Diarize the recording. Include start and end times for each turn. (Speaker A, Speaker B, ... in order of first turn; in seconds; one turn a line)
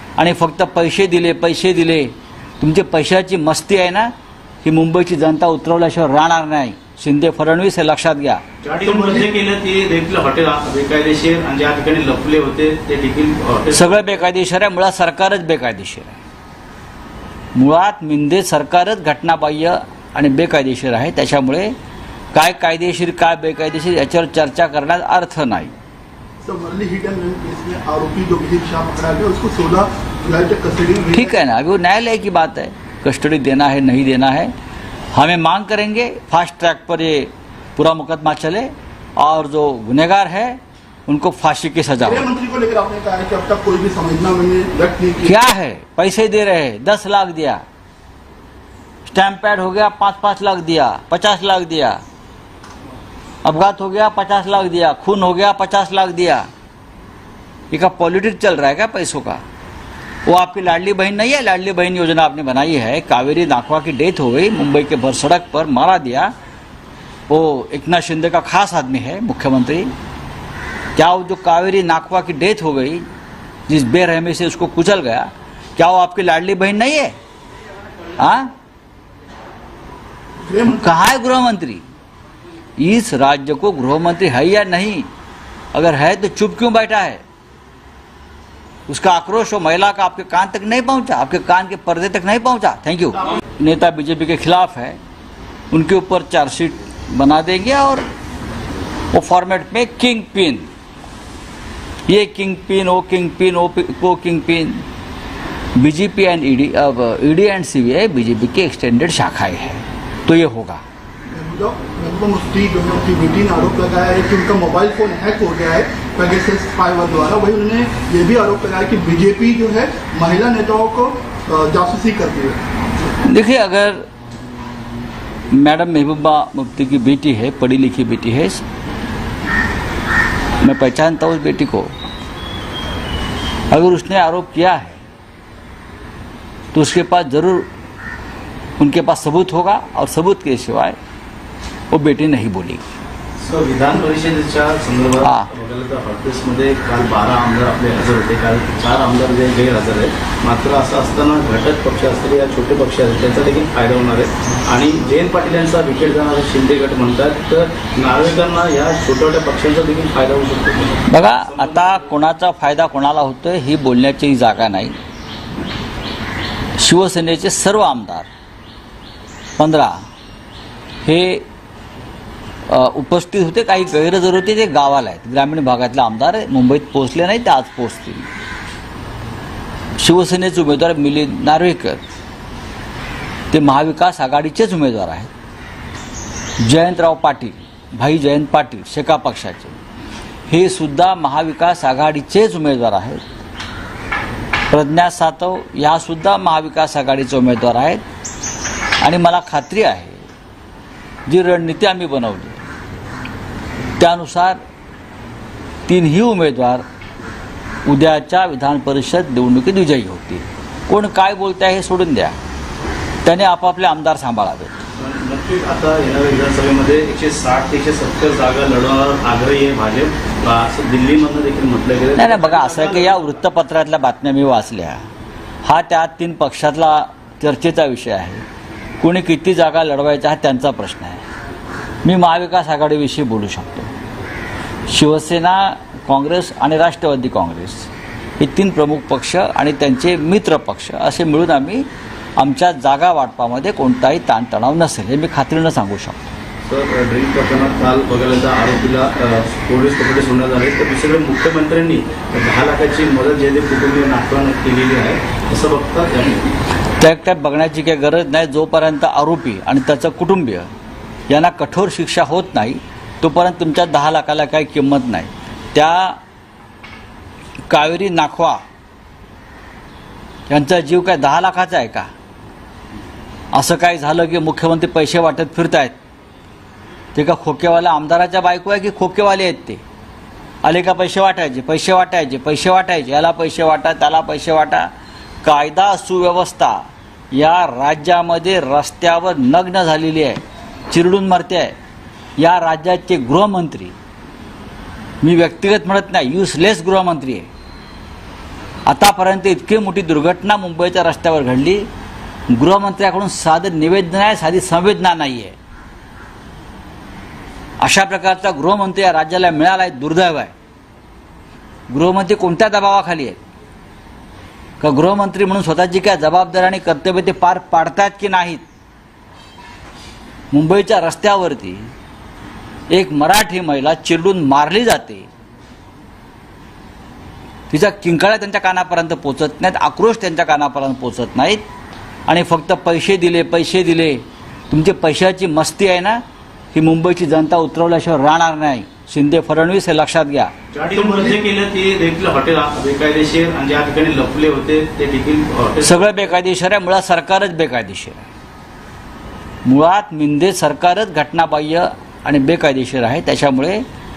Speaker A: 0.2-8.4
Speaker B: 8.6-14.2
Speaker C: 8.8-9.3
Speaker A: 13.7-16.2
Speaker A: 17.6-21.7
Speaker A: 22.3-25.7
Speaker C: 26.4-31.4
Speaker A: 31.1-34.5
Speaker A: 35.1-42.3
Speaker C: 42.0-45.4
Speaker A: 45.2-47.6
Speaker A: 49.1-52.0
Speaker A: 53.4-56.5
Speaker A: 57.7-59.4
Speaker A: 60.3-66.3
Speaker A: 67.3-69.9
Speaker A: 71.0-73.1
Speaker A: 73.7-77.2
Speaker A: 78.2-78.5
Speaker C: 80.4-80.9
Speaker A: 80.7-81.8
Speaker A: 82.8-85.1
Speaker A: 85.7-87.2
Speaker A: 88.9-95.0
Speaker A: 95.7-98.0
Speaker A: 99.1-100.7
Speaker A: 102.1-104.9
Speaker A: 105.8-110.8
Speaker C: 111.3-122.6
Speaker A: 123.3-124.0
Speaker A: 125.5-128.6
Speaker A: 130.6-131.9
Speaker A: 133.7-135.0
Speaker A: 136.7-137.7
Speaker A: 138.8-141.0
Speaker A: 141.9-142.8
Speaker B: 143.4-162.1
Speaker A: 145.2-145.5
Speaker A: 161.1-165.0
Speaker A: 166.8-168.3
Speaker A: 169.6-170.0
Speaker A: 171.0-171.5
Speaker A: 172.7-178.3
Speaker A: 180.0-182.0
Speaker A: 183.5-185.3
Speaker A: 186.6-189.8
Speaker A: 190.5-193.3
Speaker A: 194.7-198.0
Speaker A: 199.0-200.2
Speaker A: 201.3-202.6
Speaker A: 204.0-204.6
Speaker A: 205.9-206.8
Speaker A: 207.9-212.4
Speaker A: 213.2-214.8
Speaker B: 215.0-223.4
Speaker A: 222.2-225.1
Speaker A: 225.6-228.4
Speaker A: 229.0-231.2
Speaker A: 232.0-233.9
Speaker A: 234.9-241.9
Speaker A: 242.4-246.2
Speaker B: 246.7-256.6
Speaker A: 257.0-260.7
Speaker A: 261.3-266.2
Speaker A: 267.7-268.6
Speaker A: 270.5-272.1
Speaker A: 273.5-275.9
Speaker A: 277.1-279.8
Speaker A: 280.6-284.9
Speaker A: 285.4-286.8
Speaker A: 287.3-291.8
Speaker A: 292.4-294.0
Speaker A: 295.2-297.5
Speaker A: 298.9-301.9
Speaker A: 302.5-305.6
Speaker A: 307.8-310.5
Speaker A: 311.9-313.4
Speaker A: 314.8-318.6
Speaker A: 320.5-321.9
Speaker A: 322.9-325.3
Speaker A: 327.7-331.6
Speaker A: 332.3-340.5
Speaker B: 340.7-346.2
Speaker C: 340.9-341.4
Speaker A: 345.8-348.3
Speaker A: 349.6-353.8